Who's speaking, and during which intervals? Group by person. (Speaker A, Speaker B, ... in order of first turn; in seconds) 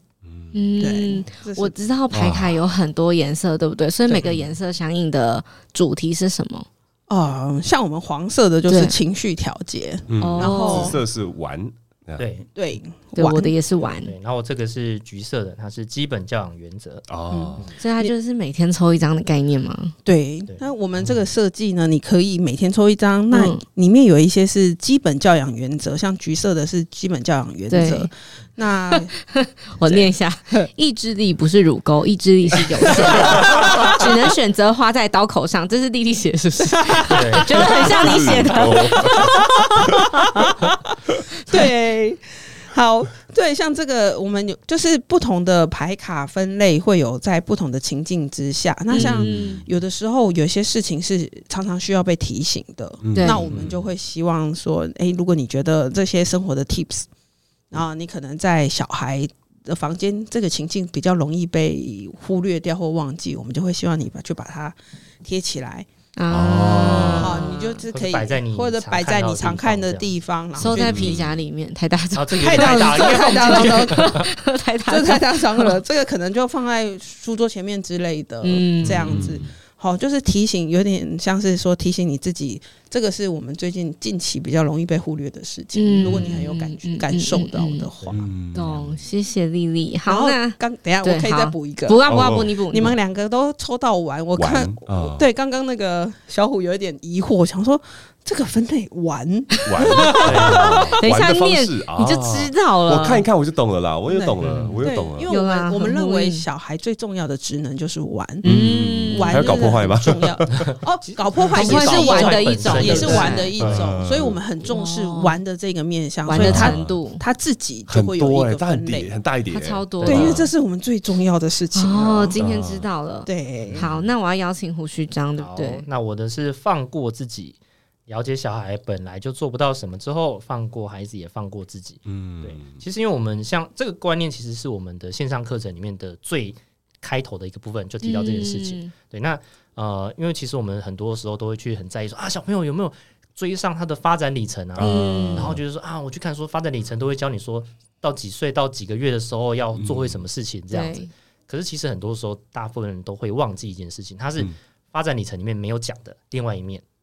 Speaker A: 0.2-0.5, 2.1-2.6, 10.1-12.3, 17.1-17.7, 37.7-40.0, 49.0-49.6, 53.0-53.9, 66.3-67.5, 70.7-71.3, 78.9-79.5, 86.0-86.3, 88.1-89.0, 92.0-92.5, 94.3-95.2, 99.7-105.3, 108.4-110.6, 113.6-114.4, 116.3-117.0, 117.9-120.5, 122.4-122.9, 123.8-124.1, 132.1-132.8, 144.8-145.6, 149.7-150.2
Speaker B: 0.5-6.7, 8.7-9.0, 10.2-10.9, 13.1-14.1, 17.8-19.9, 23.3-23.6, 27.7-28.1, 28.9-39.3, 48.9-49.6, 53.1-53.5, 66.2-67.8, 70.5-75.8, 78.4-79.1, 85.7-87.9, 88.5-92.9, 101.0-103.2, 105.3-106.4, 108.4-109.7, 111.5-113.5, 114.6-115.4, 116.2-117.2, 119.5-120.4, 121.7-125.8, 138.0-138.9, 144.8-145.5, 150.7-151.1
Speaker C: 0.8-1.7, 4.1-4.4, 7.1-11.0, 12.5-13.5, 17.3-18.1, 20.0-29.1, 33.1-34.1, 37.0-37.8, 39.8-40.5, 41.5-42.2, 42.7-57.1, 57.7-65.9, 67.1-71.2, 72.4-74.2, 74.9-88.3, 90.1-92.0, 92.7-100.9, 104.1-108.5, 109.1-119.1, 120.0-122.4, 123.3-123.9
Speaker D: 12.2-12.5, 14.0-17.1, 20.5-21.1, 37.1-37.7, 67.9-70.1, 72.2-74.2, 100.2-100.9, 104.4-104.8, 111.5-113.8, 120.0-120.3, 125.3-156.8